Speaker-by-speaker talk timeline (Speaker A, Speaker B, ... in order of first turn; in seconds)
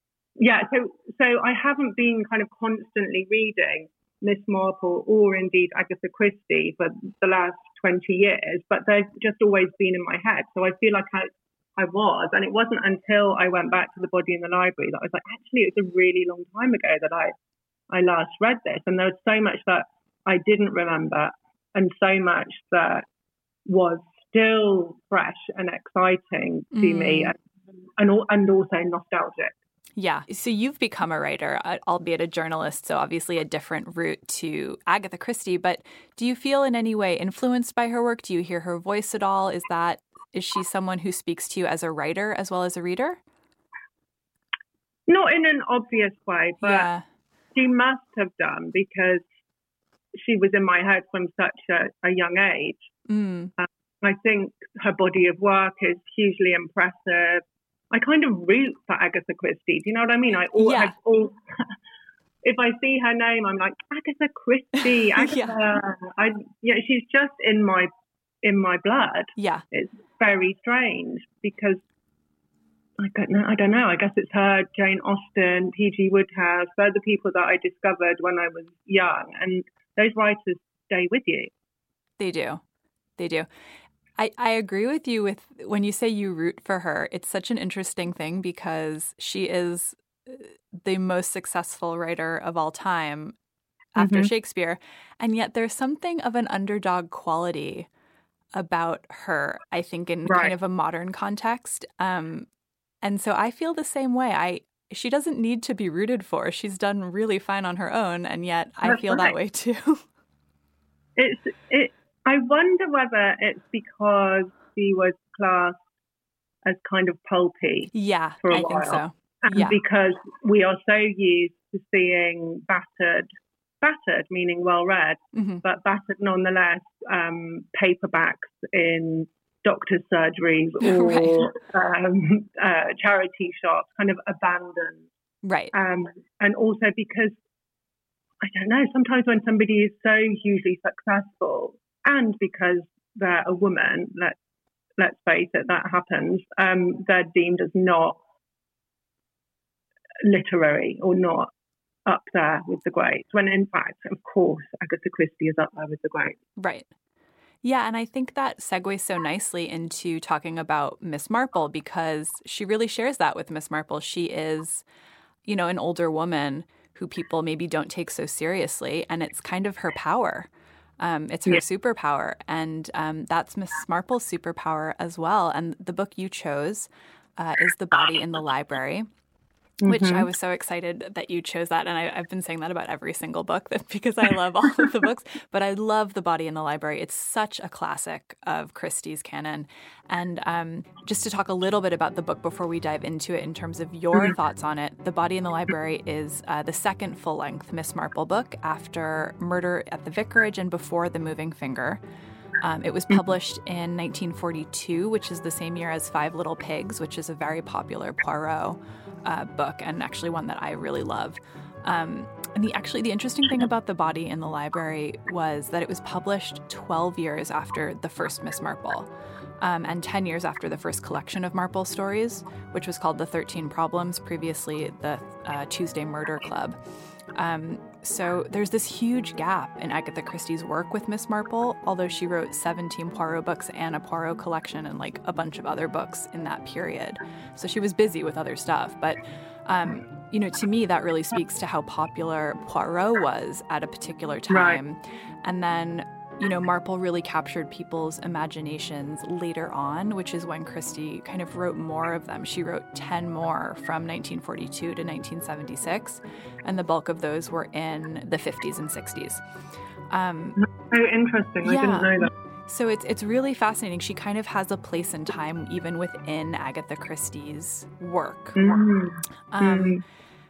Speaker A: 0.4-17.3, 17.9-23.1, 23.7-27.4, 28.0-29.6, 45.1-46.9, 47.5-49.2, 50.1-52.8, 53.6-61.6, 62.4-67.9, 68.4-71.8, 73.0-81.5, 94.0-94.3, 100.3-100.5, 108.8-109.3, 111.2-115.8, 116.7-117.9, 118.4-123.3, 123.8-135.1, 135.7-137.4, 138.4-144.4, 145.0-148.2, 150.2-151.5, 152.1-156.4, 179.8-180.3, 244.5-244.8, 260.6-262.3, 268.6-270.0
Speaker B: 26.7-27.3, 30.0-43.2, 46.6-47.0, 53.1-53.5, 60.6-60.9, 65.1-65.6, 69.4-69.6, 82.2-82.6, 83.2-83.5, 84.2-93.3, 94.0-97.9, 98.5-102.5, 103.0-110.0, 117.9-119.8, 125.3-125.6, 130.8-131.5, 135.4-135.7, 156.6-156.9, 157.6-164.8, 165.5-170.5, 171.0-179.1, 179.8-202.0, 202.6-219.1, 219.6-226.8, 227.3-259.4, 260.1-260.6, 261.6-268.6, 269.5-270.0